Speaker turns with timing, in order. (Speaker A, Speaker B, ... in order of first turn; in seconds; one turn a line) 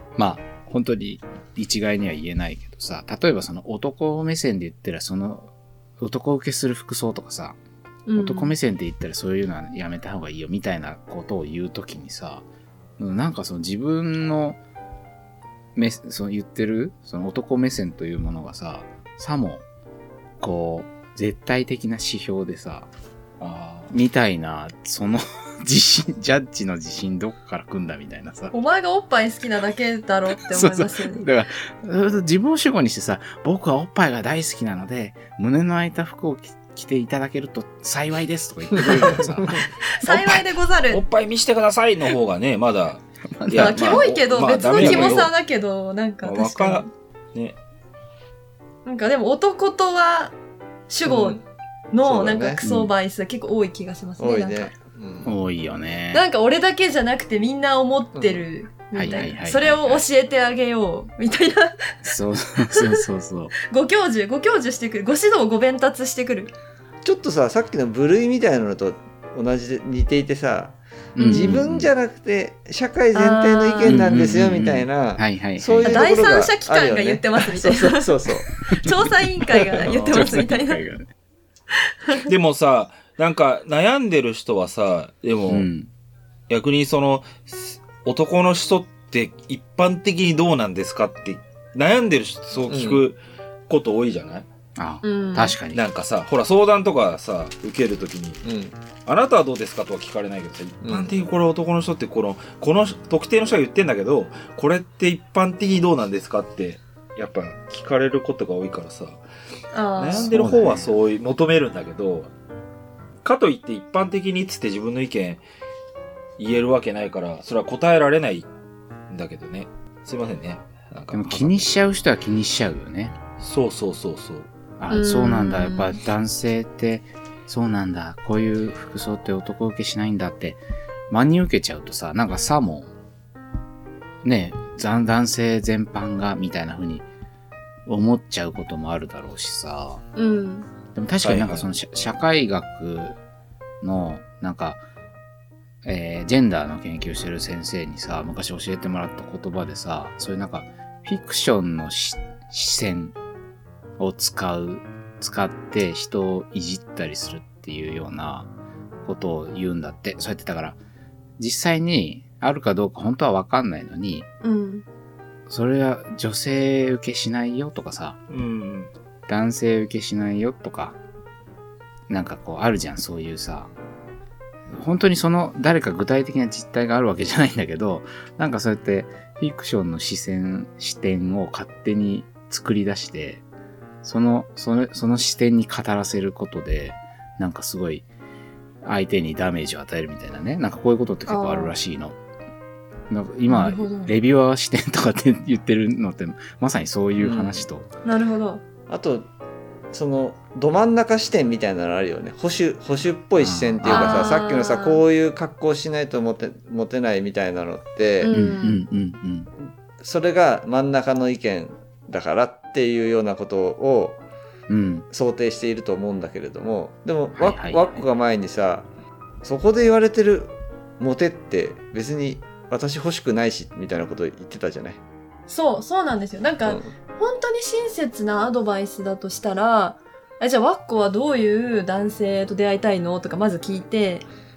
Speaker A: 0.2-7.6
Speaker B: 8.1-8.5
Speaker A: 8.2-12.4
Speaker A: 13.0-14.6
Speaker A: 15.8-19.6
Speaker A: 20.4-22.9
Speaker C: 23.4-23.9
Speaker A: 23.9-28.5
Speaker B: 28.5-31.2
Speaker A: 30.4-39.7
Speaker D: 38.8-39.2
Speaker B: 39.8-41.0
Speaker C: 40.1-45.3
Speaker A: 43.4-44.1
Speaker B: 43.6-46.9
Speaker A: 44.7-45.3
Speaker C: 46.2-47.6
Speaker B: 48.9-50.4
Speaker B: 50.9-54.7
Speaker D: 51.1-51.4
Speaker D: 52.0-52.6
Speaker A: 52.6-52.9
Speaker D: 54.2-55.3
Speaker A: 55.2-56.2
Speaker B: 56.1-62.1
Speaker D: 58.2-58.4
Speaker A: 58.9-60.0
Speaker A: 62.0-63.5
Speaker B: 62.7-63.0
Speaker B: 63.6-66.5
Speaker D: 67.0-78.6
Speaker A: 71.2-71.9
Speaker B: 71.2-71.6
Speaker B: 73.1-74.1
Speaker A: 73.8-76.1
Speaker B: 75.8-80.8
Speaker A: 79.6-81.1
Speaker D: 79.9-80.2
Speaker B: 81.8-82.3
Speaker C: 82.3-85.7
Speaker A: 85.5-85.9
Speaker C: 86.5-93.2
Speaker D: 92.7-93.0
Speaker C: 93.7-94.5
Speaker A: 94.8-95.8
Speaker B: 95.0-95.6
Speaker C: 95.7-98.4
Speaker D: 98.4-98.7
Speaker C: 99.0-109.2
Speaker D: 100.8-101.1
Speaker B: 109.7-110.3
Speaker C: 110.0-112.3
Speaker A: 110.1-110.9
Speaker C: 113.2-115.4
Speaker C: 116.4-118.5
Speaker C: 119.1-121.7
Speaker A: 121.1-123.2
Speaker C: 123.4-124.5
Speaker A: 124.8-132.9
Speaker B: 124.9-126.0
Speaker A: 134.2-137.1
Speaker A: 137.9-140.0
Speaker B: 140.2-140.7
Speaker A: 140.9-143.2
Speaker C: 141.2-141.7
Speaker A: 143.8-144.8
Speaker A: 145.8-153.2
Speaker A: 154.0-158.5
Speaker A: 159.1-160.8
Speaker A: 161.4-164.3
Speaker B: 164.4-164.8
Speaker A: 165.5-168.2
Speaker C: 168.3-168.9
Speaker A: 169.3-171.0
Speaker A: 172.1-173.7
Speaker A: 174.7-183.4
Speaker A: 184.0-188.1
Speaker A: 188.8-192.2
Speaker B: 191.3-191.8
Speaker A: 193.1-197.9
Speaker B: 193.5-194.1
Speaker D: 197.2-197.7
Speaker B: 198.1-198.6
Speaker D: 198.9-199.3
Speaker D: 199.9-208.3
Speaker A: 203.4-204.3
Speaker B: 203.8-205.0
Speaker B: 208.2-208.8
Speaker A: 208.3-209.5
Speaker D: 210.0-214.2
Speaker A: 214.7-215.1
Speaker D: 215.1-218.9
Speaker A: 217.4-218.0
Speaker D: 219.4-225.0
Speaker B: 225.5-234.3
Speaker D: 226.7-226.9